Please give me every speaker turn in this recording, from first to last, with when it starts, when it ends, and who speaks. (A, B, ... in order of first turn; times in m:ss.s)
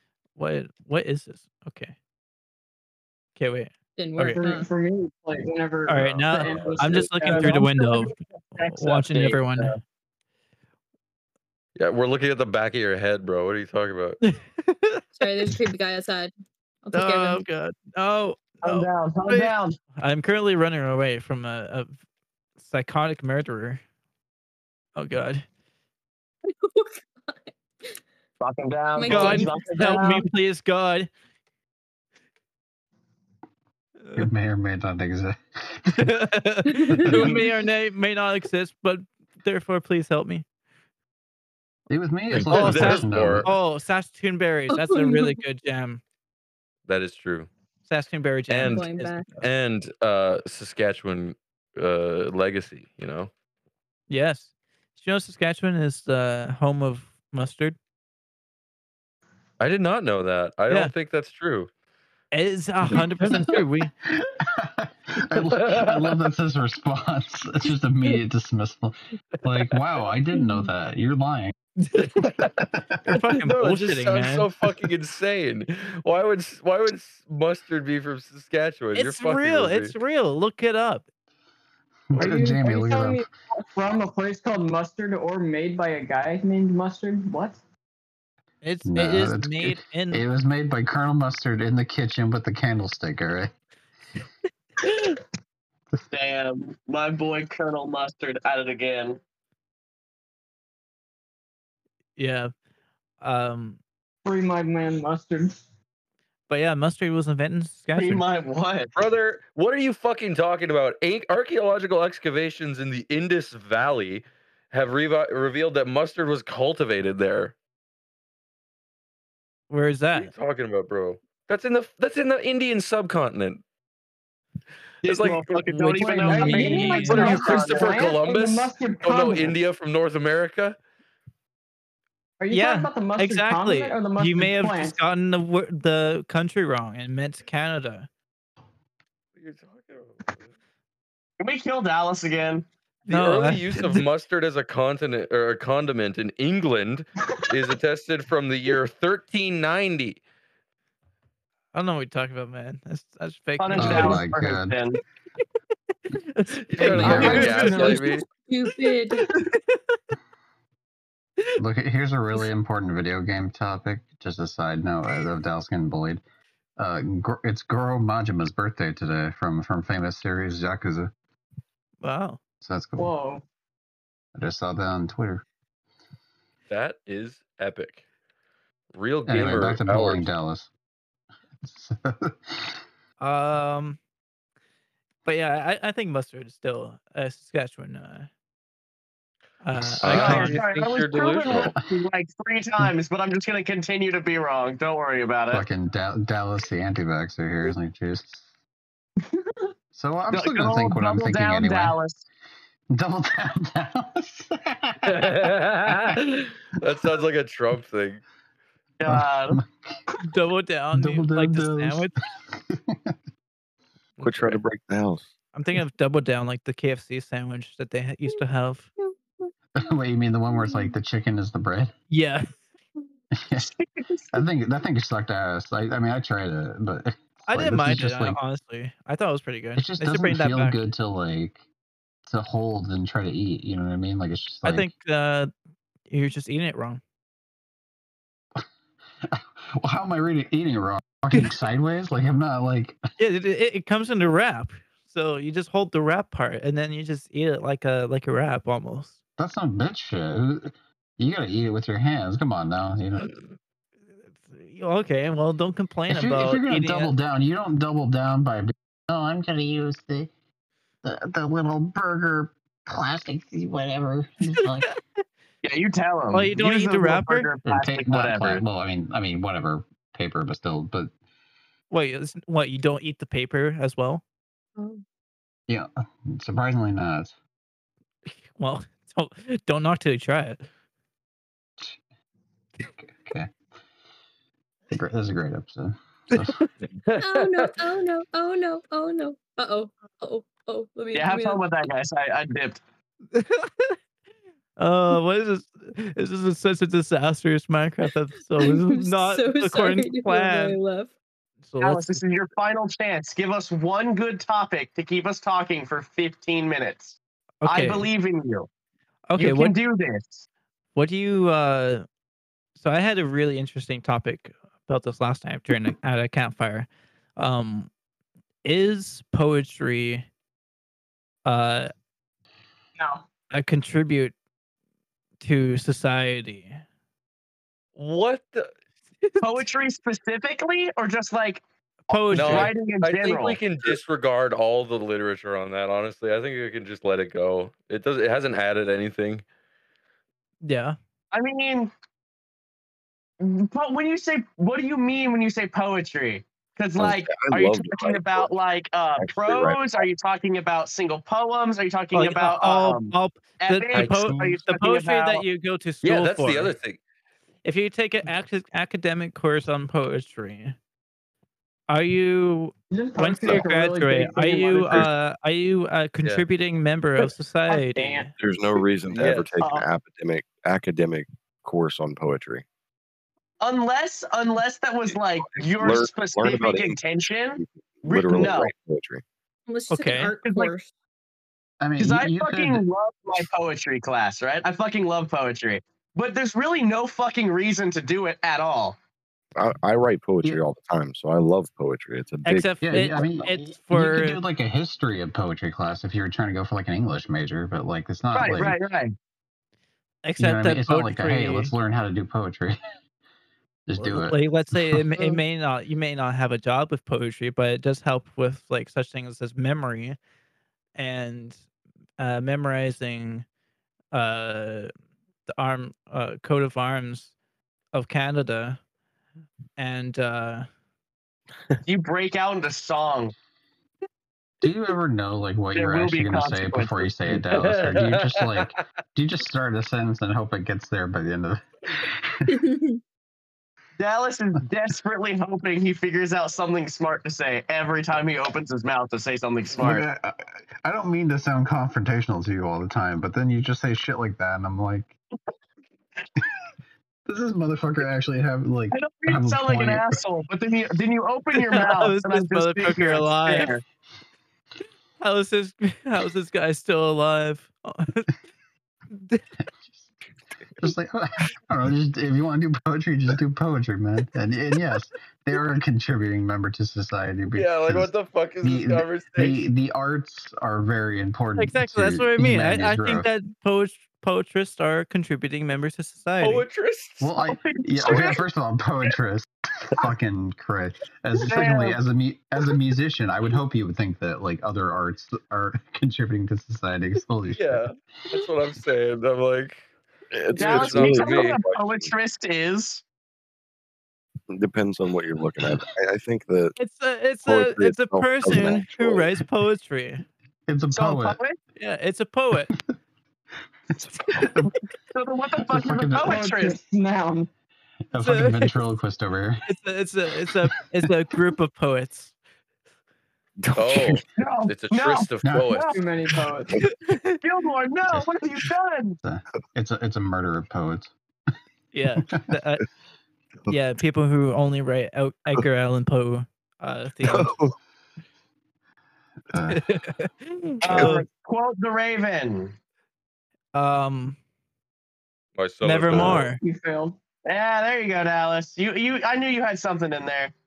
0:00.4-0:01.9 A
0:03.4-0:04.4 A
0:04.0-0:04.7 B
0:04.3-0:07.7 C
0:05.9-0:09.7 A
0:06.5-0:06.8 D
0:06.8-0:09.8 E
0:11.8-0:14.2 D
0:14.2-0:15.5 A
0:15.2-0:16.3 B
0:16.8-0:17.4 B
0:16.9-0:22.0 A
0:18.6-0:19.8 E
0:22.6-0:23.8 A
0:24.9-0:25.4 A
0:26.5-0:28.0 B
0:28.4-0:30.2 E
0:29.0-0:30.2 B
0:29.0-0:31.1 A
0:34.0-0:34.3 A
0:34.2-0:36.1 F
0:35.9-0:40.4 A
0:36.7-0:37.4 B
0:37.0-0:37.4 F
0:41.9-0:43.5 F
0:42.3-0:43.5 D
0:42.5-0:46.0 A
0:44.7-0:45.4 B
0:46.9-0:47.5 D
0:47.9-0:49.1 A
0:48.5-0:48.9 D
0:48.6-0:49.3 B
0:49.4-0:53.3 D
0:54.1-0:57.8 A
0:59.6-1:01.7 D
1:02.3-1:03.9 A
1:02.9-1:11.5 F
1:05.5-1:06.1 D
1:10.4-1:10.7 B
1:12.2-1:19.9 D
1:12.6-1:13.0 F
1:13.1-1:14.5 A
1:18.9-1:21.0 A
1:22.1-1:23.3 F
1:22.1-1:27.6 C
1:28.6-1:30.2 A
1:28.8-1:33.5 F
1:36.1-1:39.2 E
1:42.2-1:42.5 A
1:43.2-1:43.8 A
1:44.2-1:45.6 C
1:46.5-1:48.2 A
1:48.0-1:48.9 E
1:48.9-1:57.5 D
1:59.7-2:00.3 A
2:00.1-2:03.6 D
2:05.0-2:08.1 E
2:05.0-2:10.8 D
2:05.7-2:07.6 A
2:06.2-2:09.6 C
2:12.4-2:15.0 C
2:12.5-2:18.1 A
2:19.4-2:20.5 D
2:21.4-2:22.6 E
2:23.1-2:24.0 A
2:23.1-2:30.2 D
2:31.7-2:34.2 A
2:33.6-2:35.0 E
2:33.7-2:34.8 F
2:36.2-2:38.0 A
2:36.7-2:38.2 D
2:36.8-2:38.2 C
2:36.9-2:37.4 F
2:37.7-2:39.2 B
2:39.3-2:40.0 A
2:41.6-2:46.2 F
2:46.8-2:51.1 F
2:52.0-2:52.4 A
2:52.6-2:53.1 F
2:53.0-2:53.4 C
2:54.3-2:55.4 F
2:56.7-2:58.0 D
2:58.9-3:00.3 D
2:59.3-3:00.7 F
3:01.6-3:02.8 F
3:03.2-3:04.0 A
3:05.2-3:08.3 A
3:09.6-3:10.6 A
3:09.7-3:10.5 F
3:10.0-3:11.7 D
3:10.0-3:15.6 E
3:15.5-3:18.5 F
3:19.9-3:22.0 F
3:20.3-3:22.2 E
3:22.9-3:26.2 F
3:25.0-3:28.2 D
3:29.0-3:29.6 E
3:29.0-3:30.0 F
3:30.2-3:32.2 A
3:30.9-3:33.1 F
3:34.2-3:34.6 D
3:34.2-3:35.3 G
3:35.5-3:38.9 A
3:39.0-3:39.5 B
3:39.8-3:41.9 F
3:40.5-3:40.9 B
3:42.1-3:42.5 A
3:43.4-3:43.7 F
3:43.6-3:44.4 E
3:44.3-3:48.4 F
3:47.4-3:50.8 A
3:49.8-3:51.6 F
3:52.2-3:54.9 F
3:54.6-3:55.5 A
3:56.1-3:57.0 A
3:59.2-4:03.0 F
4:03.2-4:09.2 A
4:09.4-4:13.3 F
4:14.4-4:17.1 A
4:16.1-4:20.3 F
4:21.0-4:24.9 F
4:24.5-4:25.0 A
4:25.6-4:28.6 E
4:26.3-4:27.5 A
4:27.6-4:31.1 F
4:31.9-4:34.2 A
4:34.8-4:35.0 B
4:35.7-4:37.3 F
4:38.2-4:40.6 A
4:43.0-4:43.5 F
4:44.9-4:46.6 F
4:46.4-4:46.7 A
4:47.0-4:47.7 D
4:47.2-4:51.6 B
4:51.1-4:52.8 E
4:53.3-4:54.0 A
4:54.8-5:00.8 A
4:58.6-5:01.1 B
5:01.6-5:02.2 A
5:01.8-5:08.7 E
5:07.6-5:08.1 A
5:09.3-5:09.7 A
5:09.4-5:10.4 E
5:10.9-5:12.0 A
5:12.8-5:17.9 A
5:18.6-5:20.3 A
5:21.4-5:21.9 A
5:23.0-5:23.2 C
5:23.5-5:24.3 A
5:25.4-5:26.8 A
5:28.0-5:28.7 D
5:29.2-5:29.6 A
5:29.4-5:33.6 E
5:32.1-5:32.7 A
5:32.3-5:39.4 D
5:40.6-5:41.0 A
5:41.3-5:41.9 E
5:43.4-5:55.4 E
5:47.0-5:48.5 G
5:49.2-5:50.0 G
5:52.1-5:56.7 A
5:53.9-5:54.2 D
5:56.0-5:57.0 D
5:57.6-6:00.7 A
6:01.9-6:08.3 A
6:02.9-6:05.0 C
6:04.8-6:05.1 G
6:07.7-6:08.3 C
6:08.3-6:12.6 G
6:09.1-6:09.5 D
6:09.6-6:09.8 E
6:13.6-6:18.7 E
6:15.4-6:17.0 G
6:17.6-6:19.2 G
6:19.7-6:20.9 B
6:19.9-6:20.3 A
6:20.4-6:20.7 E
6:21.8-6:22.8 F
6:22.0-6:29.0 E
6:29.6-6:33.2 G
6:32.4-6:34.4 A
6:32.8-6:38.8 F
6:38.3-6:39.1 E
6:40.2-6:41.7 A
6:40.4-6:42.8 F
6:43.9-6:45.0 F
6:44.0-6:50.2 A
6:45.2-6:45.4 B
6:51.0-6:51.6 A
6:52.2-6:53.4 A
6:54.1-6:54.9 A
6:55.5-6:57.3 A
6:57.9-6:58.8 A
6:59.8-7:00.6 A
7:01.8-7:03.3 E
7:04.6-7:12.6 F
7:05.7-7:07.4 E
7:07.6-7:08.7 D
7:12.5-7:13.0 B
7:14.0-7:20.0 E
7:19.8-7:25.1 F
7:27.2-7:30.2 F
7:28.9-7:33.8 E
7:31.6-7:33.7 A
7:35.2-7:38.3 A
7:39.1-7:39.4 A
7:40.8-7:53.3 F
7:47.5-7:49.7 D
7:51.6-7:56.6 A
7:56.4-7:57.3 D
7:57.2-8:07.8 F
7:57.4-7:58.4 E
8:01.4-8:02.0 E
8:07.5-8:09.8 D
8:10.3-8:12.1 G
8:10.5-8:11.6 D
8:10.6-8:13.0 E
8:14.5-8:16.8 G
8:16.8-8:20.2 A
8:17.4-8:19.4 G
8:20.7-8:21.4 F
8:20.9-8:21.6 E
8:21.8-8:22.7 A
8:24.4-8:24.7 F
8:25.1-8:26.8 E
8:25.7-8:26.4 F
8:26.2-8:27.5 C
8:28.1-8:29.7 F
8:28.2-8:28.7 A
8:29.7-8:32.3 A
8:33.6-8:34.2 G
8:33.8-8:36.0 D
8:34.4-8:36.0 E
8:35.9-8:36.8 C
8:36.8-8:37.4 A
8:37.4-8:39.2 E
8:39.2-8:41.1 F
8:41.9-8:42.8 A
8:42.2-8:42.4 F
8:43.7-8:47.5 A
8:47.2-8:47.7 G
8:49.5-8:49.8 F
8:49.7-8:51.2 A
8:50.8-8:52.7 E
8:50.9-8:51.2 G
8:53.7-8:54.4 A
8:55.6-8:56.4 D
8:55.8-8:56.6 A
8:56.1-8:56.4 G
8:56.5-8:57.2 C
8:57.4-9:00.5 E